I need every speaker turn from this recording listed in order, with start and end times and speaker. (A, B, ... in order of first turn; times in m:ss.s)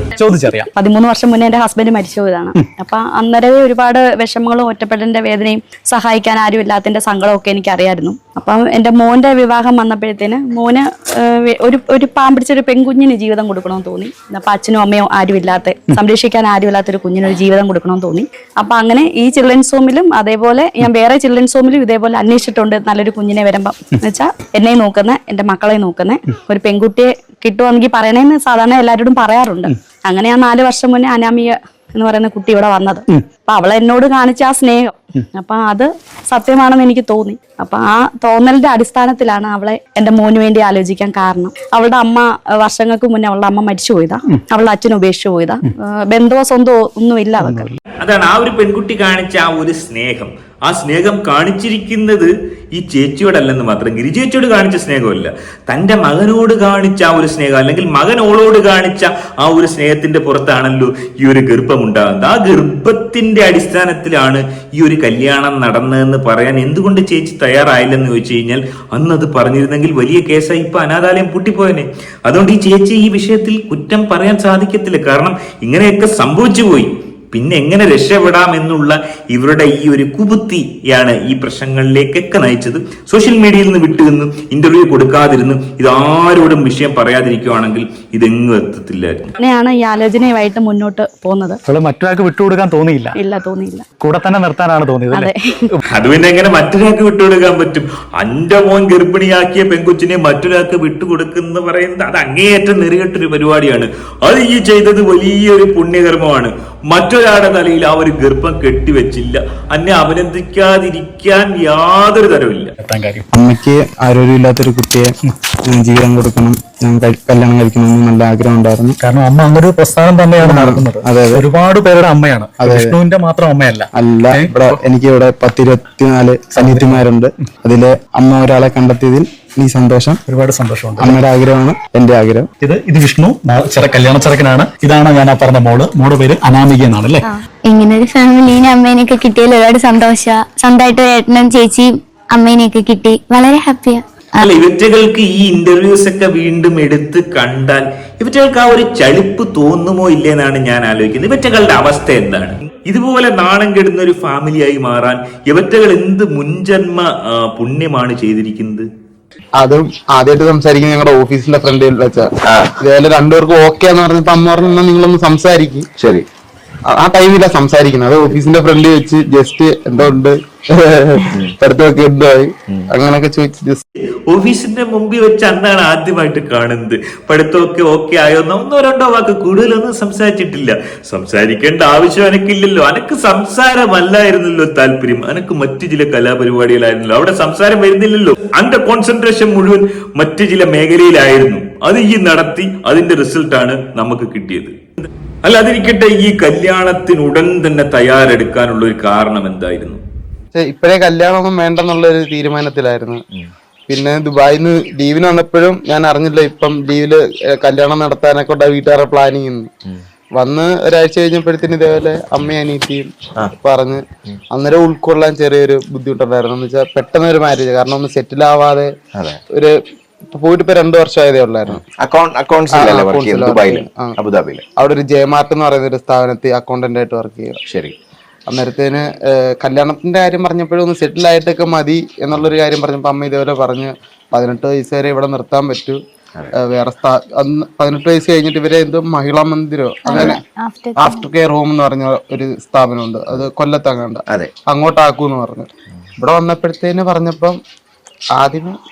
0:00.2-0:00.7 A
0:00.8-0:47.7 B
0:47.4-0:47.8 A
0:48.0-1:29.3 C
1:29.4-1:31.6 B
1:31.6-1:33.2 A
1:33.1-1:33.9 B
1:34.0-1:35.8 A
1:35.1-1:35.6 B
1:35.9-1:52.7 C
1:52.8-1:53.2 A
1:53.3-1:55.1 D
1:55.7-1:59.0 D
1:59.0-2:04.8 A
2:00.4-2:01.4 D
2:02.6-2:03.0 D
2:03.9-2:10.2 D
2:06.5-2:07.0 A
2:10.3-2:11.2 A
2:11.0-2:12.5 D
2:12.6-2:17.3 A
2:17.6-2:24.4 E
2:24.4-2:38.8 C
2:39.6-2:45.9 D
2:42.5-2:42.7 F
2:46.0-2:46.2 F
2:46.9-2:53.8 D
2:54.3-3:20.0 C
3:20.5-3:23.2 D
3:23.9-3:29.7 D
3:30.4-3:38.9 D
3:40.3-3:41.8 D
3:41.7-3:44.6 F
3:42.7-3:44.2 D
3:44.8-3:47.6 D
3:47.6-3:47.9 F
3:48.5-3:56.0 D
3:56.6-4:00.4 D
4:00.7-4:01.1 E
4:01.0-4:07.6 D
4:08.4-4:08.8 D